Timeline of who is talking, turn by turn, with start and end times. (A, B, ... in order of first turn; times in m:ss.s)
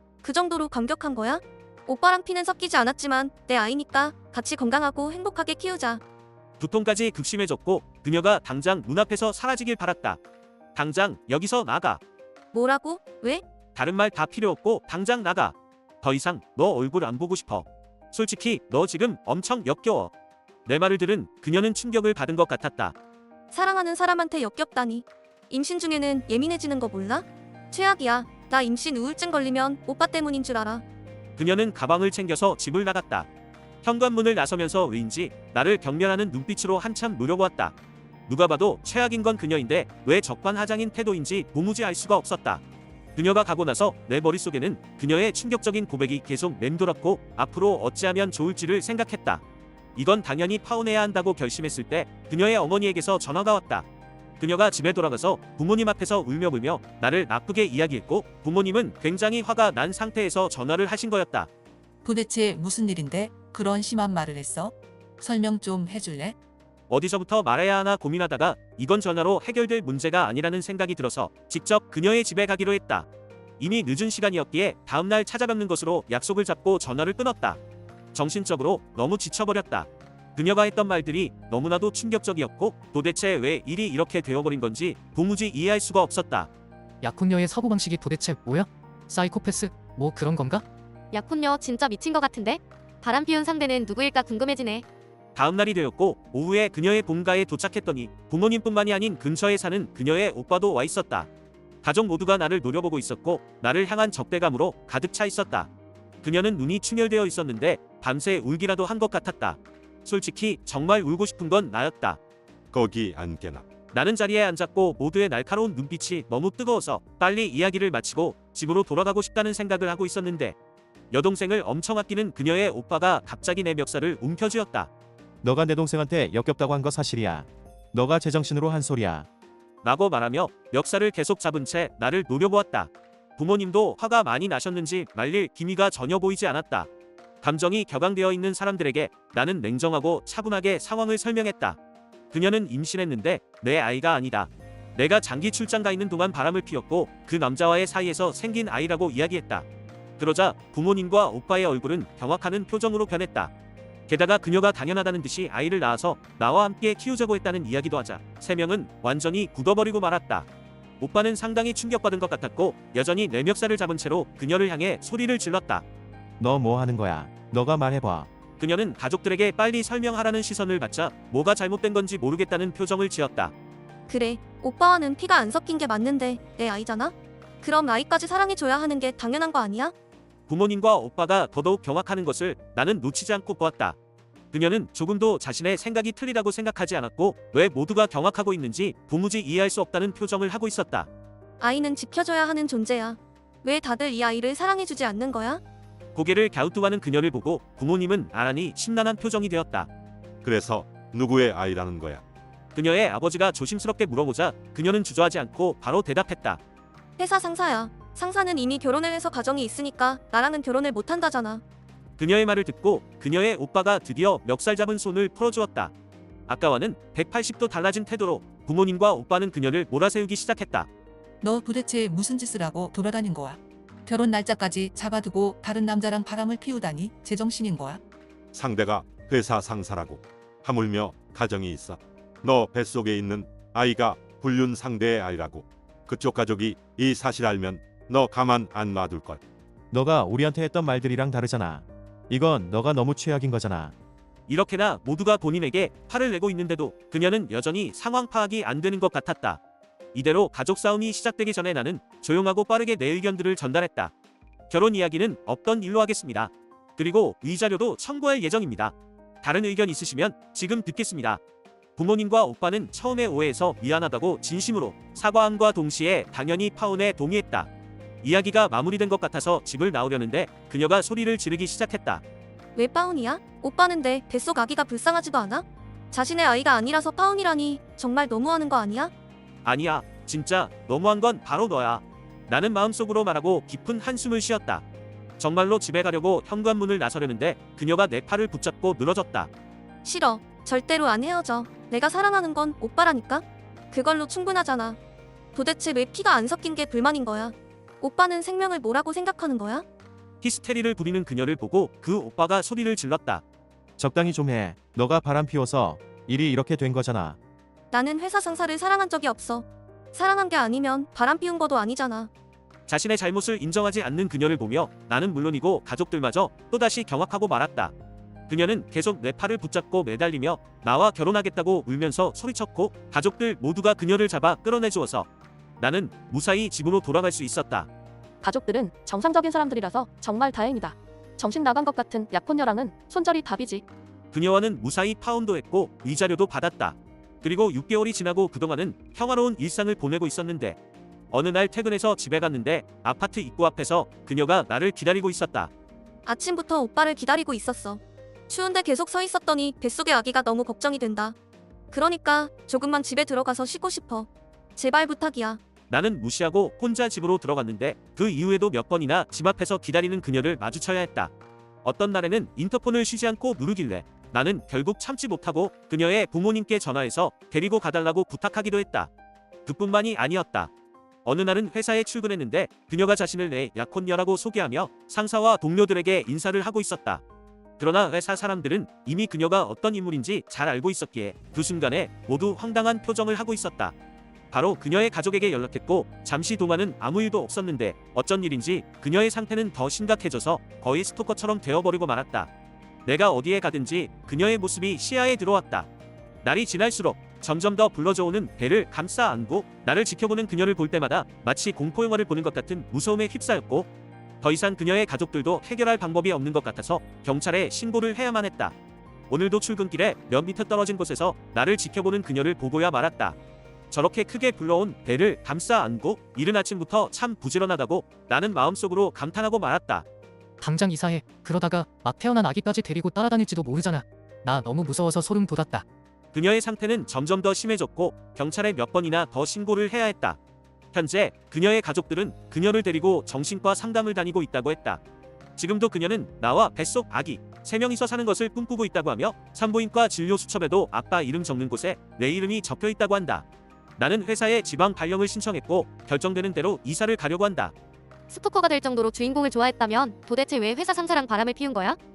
0:00.2-0:06.0 A
0:06.6-0:10.2 B
0:10.8-0:12.0 B
0:12.5-0:13.4 A
0:13.8-0:20.1 B
0:20.7-0:23.0 B
0:23.5-0:30.8 A
0:31.4-0:33.3 B
0:33.8-0:37.8 B
0:38.3-0:42.6 B
0:43.2-0:49.4 B
0:50.0-0:53.9 B
0:54.4-1:01.5 B
1:02.0-1:06.4 C
1:06.9-1:13.1 B
1:13.6-1:17.6 B
1:18.1-1:26.5 B
1:27.0-1:30.6 D
1:31.1-1:34.8 E
1:35.4-1:41.3 B
1:41.8-1:45.7 B
1:46.2-1:52.2 B
1:52.7-1:53.7 F
1:53.9-2:00.6 B
2:01.1-2:04.9 B
2:05.4-2:09.3 G
2:09.8-2:16.9 B
2:17.4-2:21.8 B
2:22.3-2:29.7 B
2:30.2-2:33.5 B
2:34.1-2:40.5 B
2:41.0-2:45.8 B
2:46.4-2:48.3 G
2:48.6-2:53.5 B
2:54.1-2:59.9 A
3:00.5-3:04.0 B
3:04.5-3:11.1 B
3:11.6-3:15.6 A
3:16.2-3:19.9 B
3:20.4-3:22.2 F
3:22.7-3:26.6 B
3:27.2-3:31.6 A
3:32.2-3:35.9 B
3:36.5-3:40.9 B
3:41.4-3:48.0 C
3:48.5-3:59.4 F
3:59.9-4:03.9 G
4:04.5-4:09.6 B
4:10.1-4:14.1 B
4:14.7-4:21.4 B
4:22.0-4:27.7 B
4:28.2-4:32.2 B
4:32.8-4:39.1 A
4:39.6-4:44.8 B
4:45.4-4:49.5 B
4:50.0-4:55.0 A
4:55.6-4:59.8 A
5:00.4-5:03.4 B
5:04.0-5:07.4 G
5:07.9-5:12.3 A
5:12.9-5:17.9 B
5:18.5-5:25.3 B
5:25.8-5:27.9 B
5:28.4-5:33.8 H
5:34.3-5:40.8 B
5:41.3-5:45.7 B
5:46.3-5:51.4 A
5:51.9-5:55.6 A
5:55.9-6:01.3 B
6:01.8-6:09.1 B
6:09.7-6:10.7 B
6:11.2-6:17.2 B
6:17.8-6:23.9 B
6:24.5-6:32.5 B
6:33.1-6:35.9 B
6:36.4-6:43.9 B
6:44.4-6:48.7 B
6:49.3-6:53.4 B
6:53.9-7:00.0 B
7:00.6-7:05.8 D
7:06.3-7:10.4 B
7:10.9-7:15.0 B
7:15.6-7:23.5 B
7:24.0-7:27.7 B
7:28.3-7:32.0 E